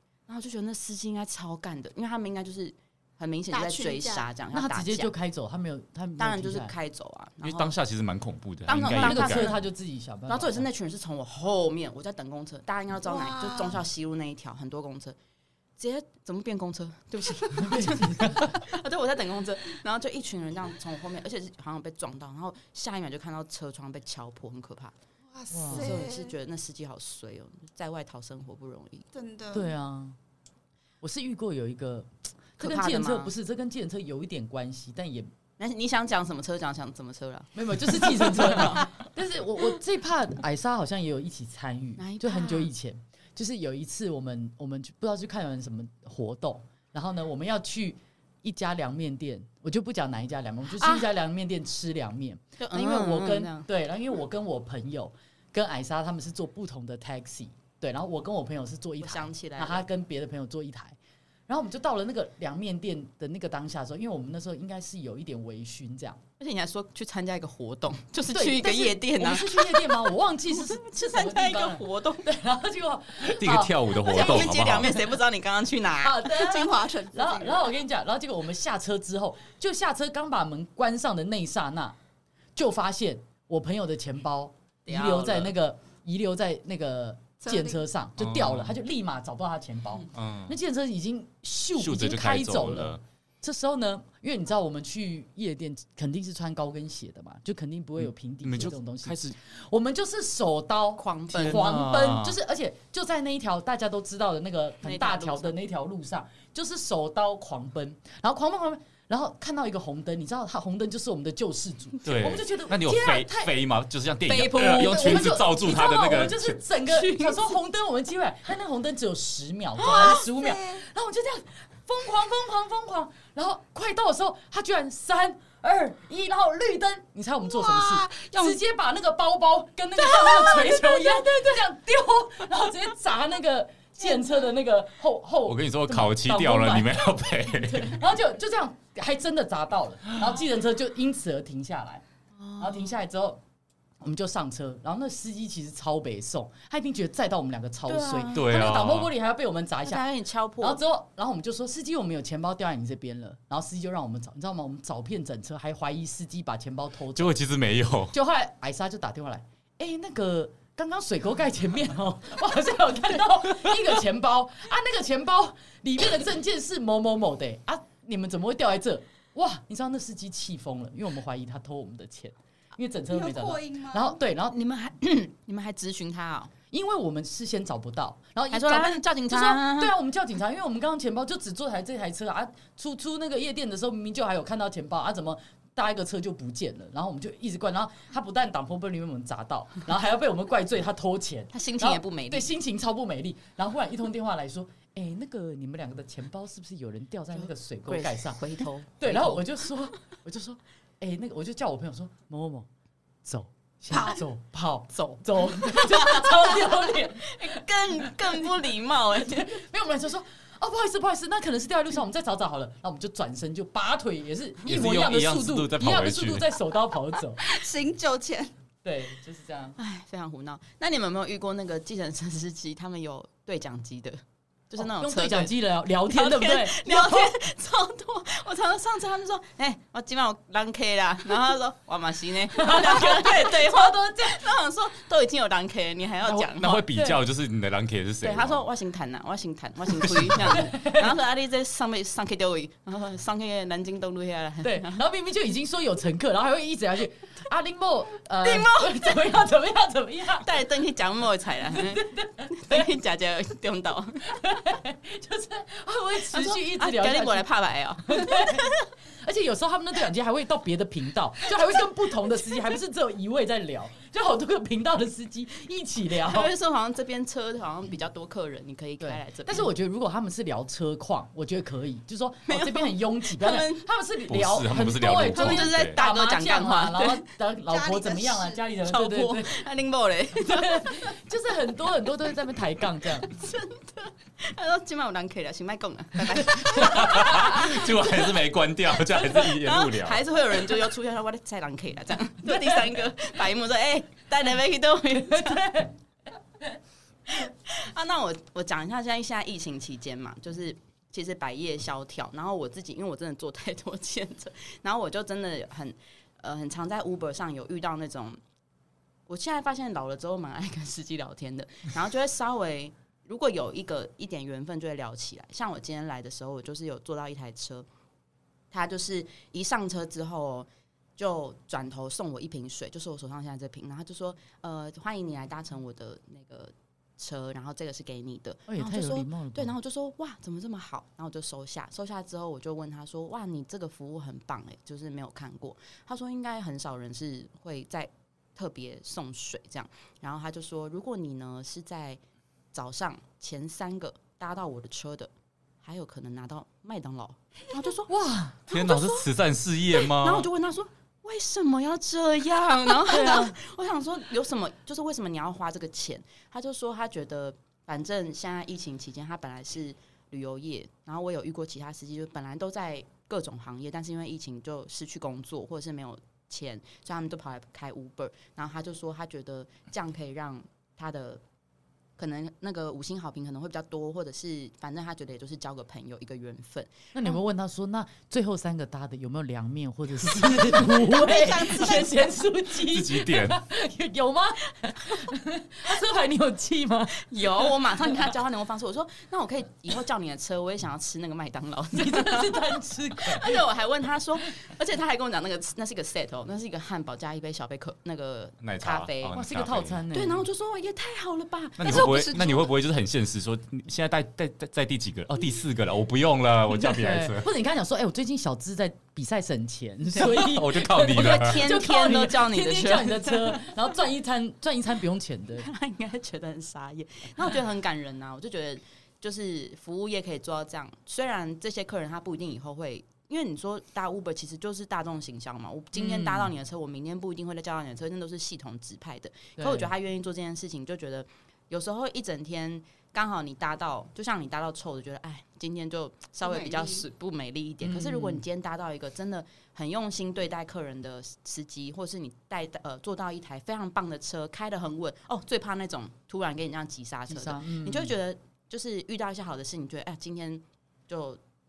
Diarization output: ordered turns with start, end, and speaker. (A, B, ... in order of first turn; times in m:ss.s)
0:00.3-0:05.1 A
0:03.5-0:04.3 B
0:04.5-0:06.7 C
0:06.2-0:07.8 A
0:07.4-0:09.6 D
0:08.7-0:09.6 A
0:08.9-0:10.7 C
0:10.3-0:15.2 A
0:13.0-0:13.8 B
0:15.8-0:24.9 A
0:17.6-0:18.6 C
0:25.3-0:26.4 B
0:25.5-0:26.0 C
0:25.7-0:29.0 A
0:29.1-0:29.7 B
0:29.5-0:30.2 C
0:31.0-0:35.3 C
0:32.6-0:33.3 A
0:35.6-0:38.9 A
0:37.5-1:01.0 C
0:42.0-0:42.7 A
0:52.6-0:53.7 A
0:59.0-0:59.9 A
1:01.5-1:06.2 C
1:06.4-1:12.3 A
1:08.3-1:14.5 C
1:13.2-1:15.2 D
1:14.0-1:16.6 A
1:16.0-1:22.0 C
1:16.3-1:17.6 B
1:22.6-1:53.6 C
1:24.9-1:25.5 A
1:27.4-1:27.8 B
1:28.2-1:28.8 D
1:30.1-1:30.6 D
1:31.8-1:33.0 D
1:38.4-1:39.4 D
1:41.0-1:41.7 A
1:41.4-1:42.4 D
1:44.8-1:45.6 A
1:52.0-1:56.6 D
1:54.2-1:55.4 A
1:54.6-2:22.0 C
1:56.9-1:57.5 A
1:59.8-2:00.1 A
1:59.8-2:00.8 B
2:07.5-2:08.6 B
2:10.0-2:11.3 B
2:15.5-2:18.0 D
2:22.4-2:23.0 A
2:22.6-2:23.4 C
2:24.0-2:30.0 C
2:27.9-2:28.7 A
2:28.3-2:29.1 D
2:29.8-2:30.8 A
2:30.6-2:37.4 C
2:37.2-2:38.2 D
2:38.1-2:54.6 C
2:53.1-2:54.2 B
2:54.5-2:56.5 A
2:56.7-3:18.4 C
2:58.5-2:59.9 A
3:11.5-3:12.5 A
3:17.3-3:19.5 A
3:19.0-3:22.7 C
3:23.2-3:28.5 C
3:24.9-3:29.6 A
3:29.2-3:37.4 C
3:34.6-3:36.5 D
3:37.4-3:38.5 B
3:38.8-3:39.8 C
3:39.8-3:45.6 A
3:44.8-3:47.4 C
3:46.1-3:56.8 A
3:52.5-3:54.5 C
3:56.2-3:58.7 D
3:56.9-3:57.2 C
3:58.2-4:05.0 A
3:59.9-4:00.6 D
4:00.5-4:01.1 C
4:04.6-4:10.5 C
4:08.4-4:09.2 A
4:10.4-4:14.4 A
4:11.7-4:12.9 C
4:14.3-4:17.5 C
4:16.3-4:18.8 A
4:18.0-4:26.5 C
4:26.2-4:29.7 A
4:29.0-4:39.6 C
4:32.5-4:33.9 A
4:34.3-4:36.0 D
4:35.3-4:37.3 A
4:37.7-4:38.6 B
4:38.8-4:41.1 A
4:40.4-4:43.3 C
4:43.3-4:48.0 A
4:46.4-4:47.8 C
4:46.7-4:50.2 D
4:49.2-4:49.5 C
4:49.6-4:55.8 A
4:52.4-4:52.9 C
4:55.2-4:55.9 C
4:57.3-5:08.4 A
5:09.3-5:17.9 A
5:18.7-5:42.2 A
5:28.7-5:29.8 C
5:42.7-5:45.3 A
5:45.8-5:48.1 A
5:48.1-5:48.6 C
5:48.7-5:49.3 A
5:48.7-5:50.5 D
5:49.9-6:11.4 A
5:53.1-5:53.6 C
6:12.2-6:17.4 A
6:17.1-6:28.4 C
6:20.4-6:22.4 B
6:22.8-6:23.6 D
6:27.2-6:32.7 A
6:31.9-6:33.6 C
6:33.2-6:39.4 A
6:38.6-6:40.0 D
6:39.3-6:40.5 C
6:40.1-6:42.4 A
6:41.8-6:47.5 D
6:41.8-6:42.7 B
6:46.7-6:55.7 C
6:50.2-6:51.6 D
6:50.7-6:53.8 A
6:55.6-7:31.4 A
7:05.9-7:06.5 C
7:09.6-7:09.9 C
7:16.4-7:17.0 B
7:17.8-7:18.4 C
7:27.3-7:28.1 C